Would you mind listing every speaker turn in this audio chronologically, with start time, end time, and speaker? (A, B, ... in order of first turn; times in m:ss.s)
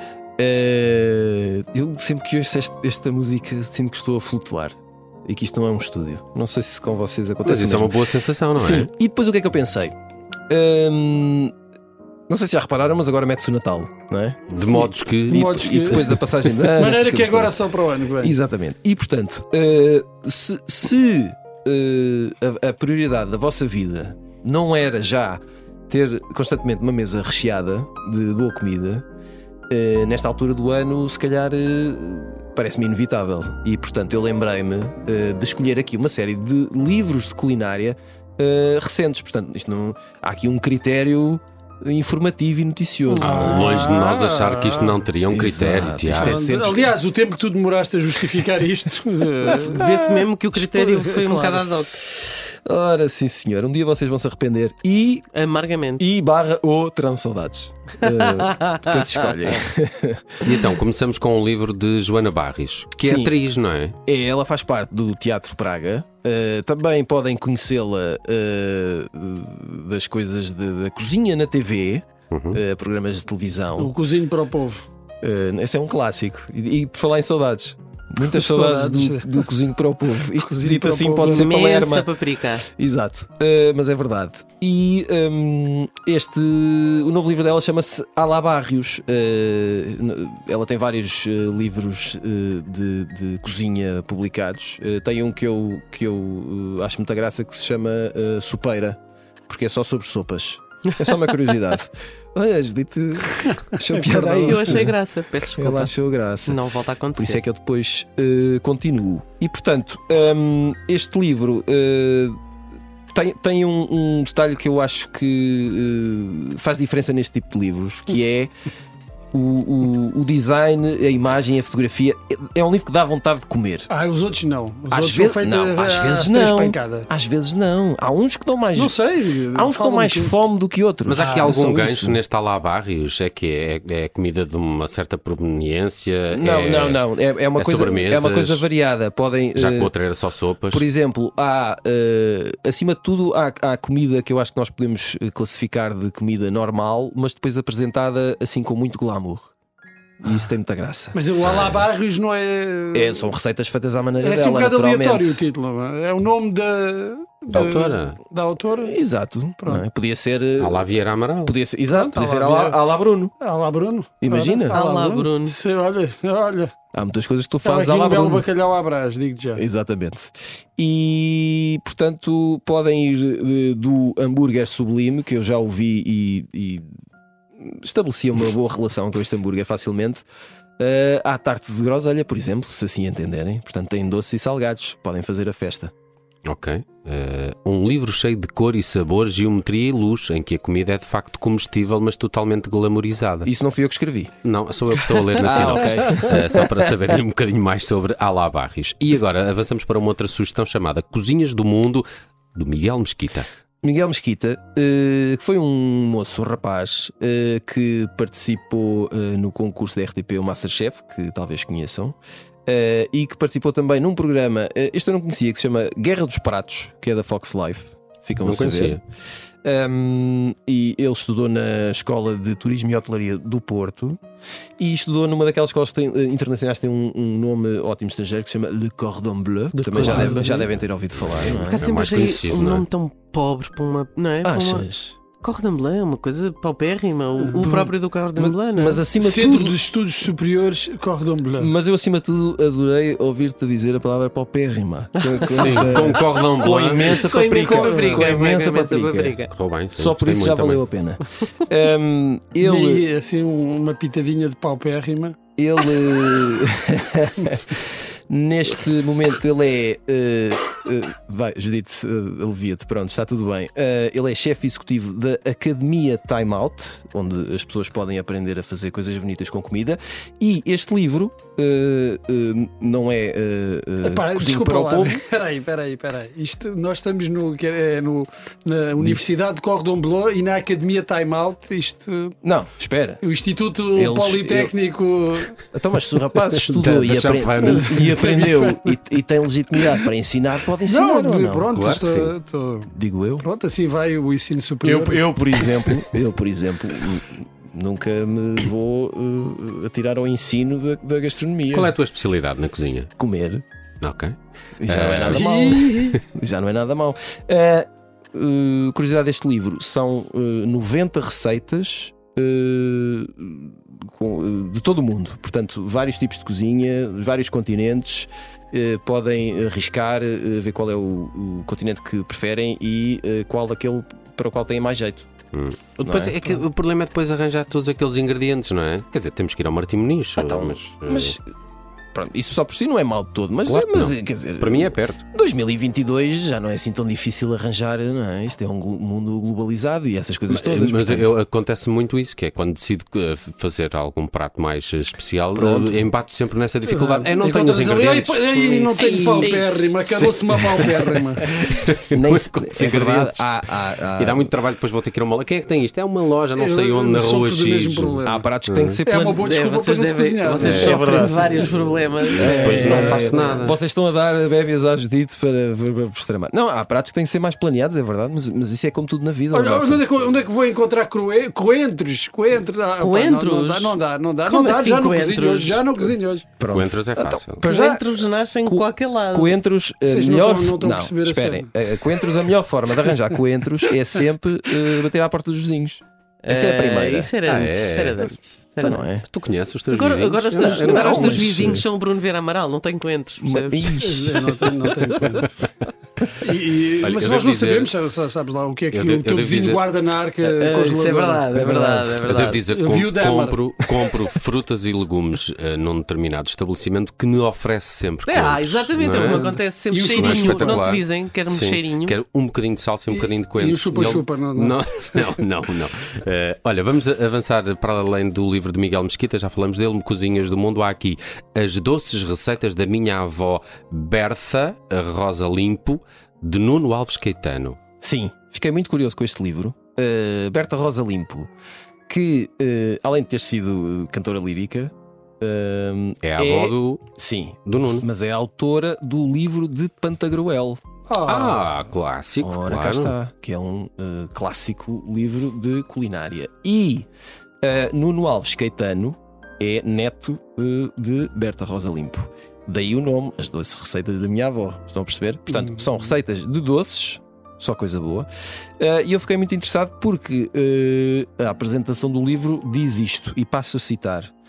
0:00.4-0:08.0 A
0:07.4-0:08.9 B
0:08.6-0:10.0 A
0:10.5-0:11.5 A
0:12.3-0:14.5 A
0:14.5-0:16.0 B
0:15.3-0:17.6 A
0:15.3-0:18.4 C
0:18.2-0:29.0 A
0:29.7-0:43.5 A
0:43.1-0:43.7 D
0:43.2-0:45.0 C
0:43.2-0:46.4 B
0:45.3-0:46.9 A
0:46.1-0:49.8 C
0:49.5-0:50.2 A
0:49.5-0:52.0 D
0:50.5-0:51.7 C
0:52.2-0:55.3 A
0:55.3-0:56.0 D
0:56.0-1:00.5 A
1:00.4-1:04.0 B
1:03.0-1:03.4 A
1:04.0-1:13.9 A
1:12.3-1:12.6 B
1:13.8-1:14.8 C
1:15.2-1:22.1 A
1:18.2-1:19.5 C
1:20.3-1:21.5 C
1:21.3-1:22.7 D
1:22.7-1:44.9 A
1:43.9-1:44.9 C
1:44.4-1:45.9 D
1:45.6-1:46.6 A
1:46.5-1:47.4 D
1:47.2-1:52.4 A
1:53.1-1:58.5 A
1:59.3-2:03.9 A
2:03.9-2:07.1 C
2:04.9-2:09.0 A
2:08.8-2:10.3 C
2:09.5-2:12.2 A
2:11.1-2:18.6 B
2:11.2-2:11.5 C
2:16.3-2:19.9 A
2:19.6-2:20.8 B
2:20.7-2:29.5 A
2:30.2-2:31.2 A
2:31.1-2:33.3 C
2:31.5-2:31.8 B
2:32.9-2:35.4 A
2:34.2-2:39.0 C
2:37.5-2:38.2 B
2:38.8-2:40.9 A
2:39.6-2:39.8 C
2:40.6-2:41.6 B
2:41.4-2:43.3 A
2:41.9-2:42.8 C
2:43.4-2:46.7 C
2:44.2-2:44.8 A
2:44.7-2:45.6 D
2:46.9-2:48.5 A
2:47.6-2:49.6 C
2:49.6-2:56.9 A
2:57.6-3:00.2 A
3:00.8-3:05.9 A
3:06.5-3:13.5 B
3:13.4-3:14.3 A
3:14.4-3:23.5 B
3:15.4-3:16.6 A
3:23.8-3:39.0 A
3:38.4-3:39.0 B
3:39.6-3:44.2 A
3:44.8-3:51.9 A
3:49.8-3:50.7 D
3:50.0-3:50.5 C
3:51.3-3:52.9 B
3:51.5-3:59.0 D
3:54.4-3:55.2 A
3:57.6-3:59.8 A
3:59.2-4:01.7 C
4:01.6-4:09.4 A
4:05.5-4:07.3 B
4:05.7-4:09.5 D
4:07.7-4:08.4 C
4:09.5-4:10.8 B
4:10.0-4:13.1 A
4:12.6-4:15.4 C
4:15.6-4:35.2 A
4:34.0-4:42.4 C
4:42.4-4:43.2 A
4:43.2-4:45.6 C
4:43.9-4:44.8 A
4:45.7-4:51.8 A
4:46.5-4:48.3 B
4:47.6-4:49.0 C
4:50.9-4:56.0 C
4:51.7-4:52.3 B
4:52.9-4:53.4 A
4:54.8-5:01.9 A
5:01.7-5:03.1 B
5:03.2-5:03.6 A
5:04.0-5:04.4 B
5:04.8-5:25.3 A
5:04.9-5:05.5 B
5:05.3-5:06.2 C
5:25.5-5:31.4 B
5:26.0-5:26.6 A
5:30.4-5:31.4 A
5:32.1-5:41.3 A
5:33.7-5:35.2 B
5:40.5-5:49.5 B
5:45.5-5:46.1 A
5:46.9-5:51.6 C
5:48.6-5:50.0 D
5:50.2-5:53.5 B
5:52.1-5:54.5 A
5:54.2-5:59.0 B
5:56.6-5:58.4 C
5:58.2-5:59.4 A
5:59.0-6:01.7 C
5:59.4-6:03.4 D
6:00.6-6:01.0 B
6:00.7-6:01.4 A
6:01.7-6:03.8 B
6:02.3-6:03.6 C
6:02.4-6:10.1 A
6:09.5-6:16.5 C
6:13.0-6:15.8 D
6:16.6-6:27.3 A
6:16.7-6:17.7 B
6:17.6-6:19.6 D
6:20.1-6:22.2 C
6:26.4-6:29.1 D
6:27.4-6:28.2 B
6:28.8-6:29.2 A
6:29.3-6:31.8 B
6:29.9-6:34.0 D
6:30.6-6:31.8 A
6:33.4-6:34.8 A
6:34.0-6:35.5 C
6:36.4-6:41.5 C
6:37.0-6:37.9 B
6:38.9-6:39.8 B
6:40.4-6:42.6 D
6:41.5-6:42.2 A
6:42.2-6:49.5 B
6:42.7-6:43.7 C
6:48.2-6:52.1 D
6:49.2-6:50.9 C
6:50.1-7:07.8 B
6:53.1-6:55.4 C
7:08.0-7:11.5 A
7:12.1-7:20.8 A
7:16.2-7:17.0 B
7:17.6-7:18.0 B
7:21.1-7:21.7 C
7:21.2-7:23.1 B
7:22.4-7:27.1 A
7:27.6-7:38.3 A
7:38.8-7:44.3 A